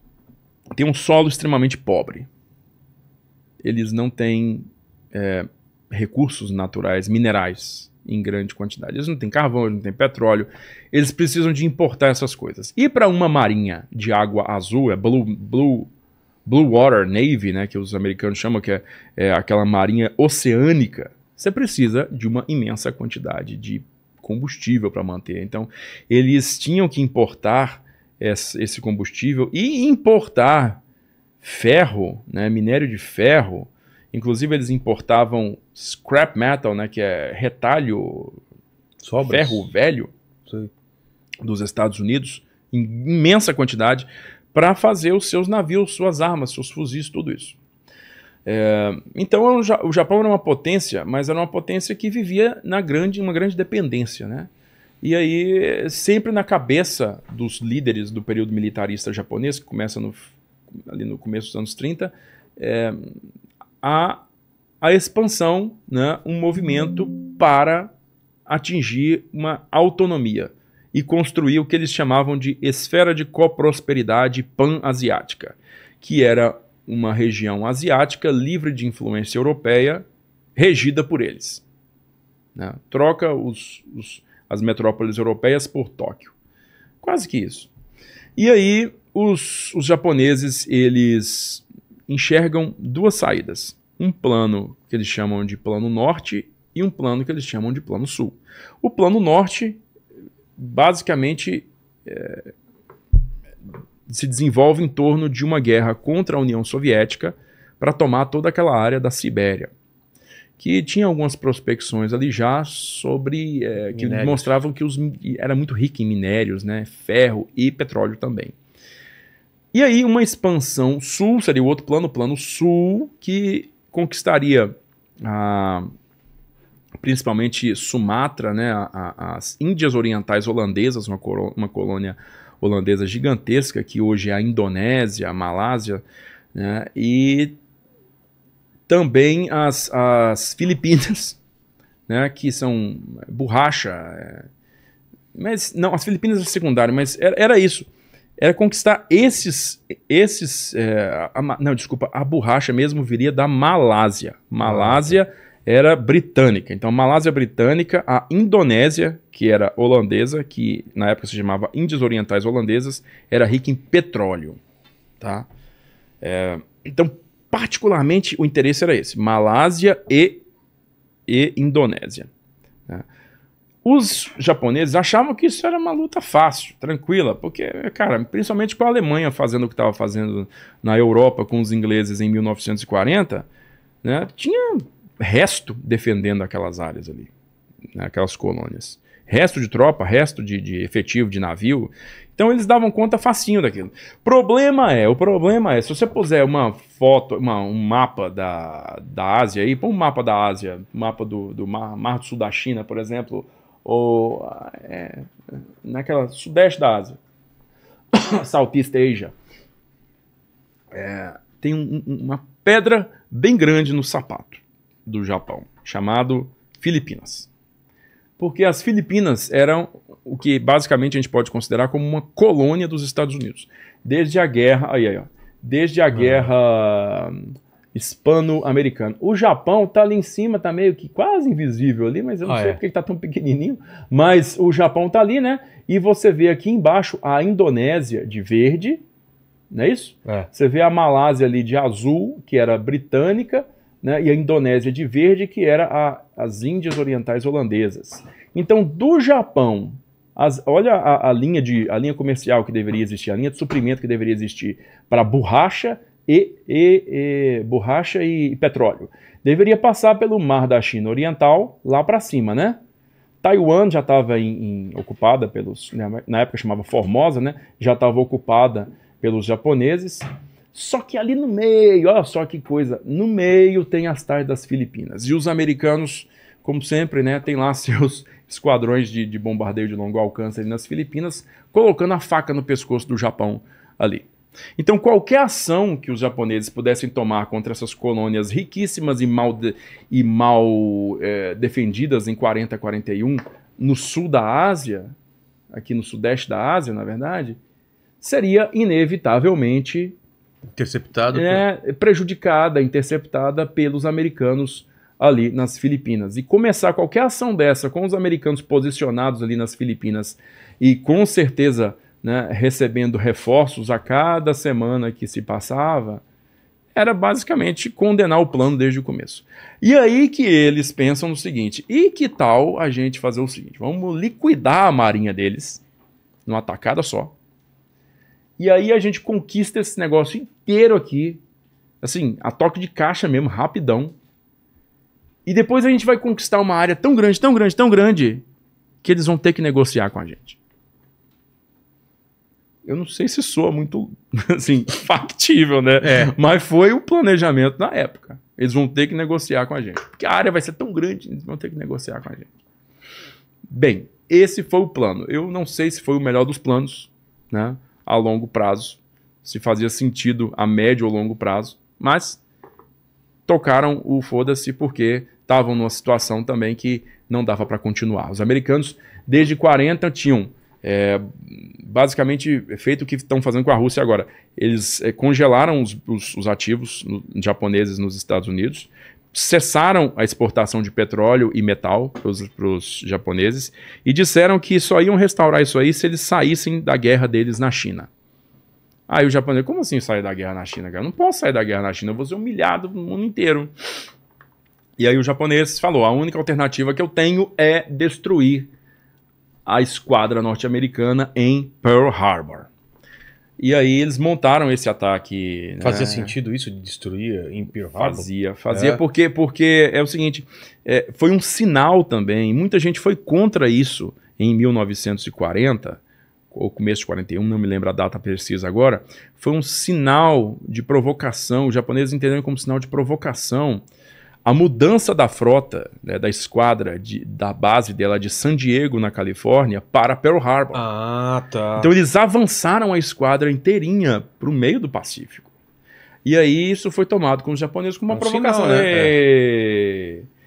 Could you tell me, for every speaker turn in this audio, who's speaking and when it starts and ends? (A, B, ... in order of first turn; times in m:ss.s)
0:00.8-0:02.3 A
0:03.6-0:15.9 A
0:16.4-0:30.8 A
0:31.4-0:38.4 A
0:39.0-0:39.7 B
0:39.2-0:40.1 A
0:41.4-0:47.6 A
0:48.4-0:54.5 A
0:55.0-1:03.2 A
1:03.8-1:04.2 A
1:04.8-1:07.9 A
1:08.5-1:21.6 A
1:22.6-1:26.3 A
1:27.0-1:27.7 A
1:28.4-1:39.8 A
1:40.6-1:42.5 A
1:44.1-1:49.7 A
1:50.6-1:58.5 A
1:53.9-1:54.5 B
1:59.7-2:05.8 A
2:07.0-2:16.0 A
2:16.5-2:17.6 A
2:18.9-2:21.4 A
2:22.1-2:24.5 A
2:25.3-2:27.9 A
2:28.4-2:44.6 A
2:34.6-2:35.2 B
2:45.2-2:45.5 A
2:46.2-2:50.4 A
2:51.3-2:52.3 A
2:53.8-3:03.5 A
3:04.0-3:07.3 A
3:07.9-3:25.3 A
3:25.8-3:27.2 A
3:28.1-3:29.3 A
3:30.9-3:37.5 A
3:38.4-3:59.0 A
3:46.1-3:46.5 B
3:52.4-3:52.8 B
3:59.7-4:22.8 A
4:23.4-4:55.1 A
4:55.7-4:57.6 A
4:58.2-5:00.2 A
5:00.8-5:01.6 B
5:01.3-5:16.2 A
5:16.9-5:25.8 A
5:26.4-5:27.3 A
5:28.6-5:31.4 A
5:32.0-5:34.2 A
5:35.4-5:38.4 A
5:39.0-5:40.6 A
5:42.8-5:52.5 A
5:46.0-5:46.3 B
5:53.7-6:02.4 A
6:03.5-6:28.1 A
6:29.1-6:33.7 A
6:35.0-6:38.7 A
6:39.6-6:42.7 A
6:43.6-6:46.3 A
6:45.8-6:49.0 B
6:48.0-7:03.8 A
7:04.4-7:10.8 A
7:10.7-7:11.9 B
7:11.8-7:15.5 A
7:16.2-7:20.2 A
7:18.1-7:19.1 B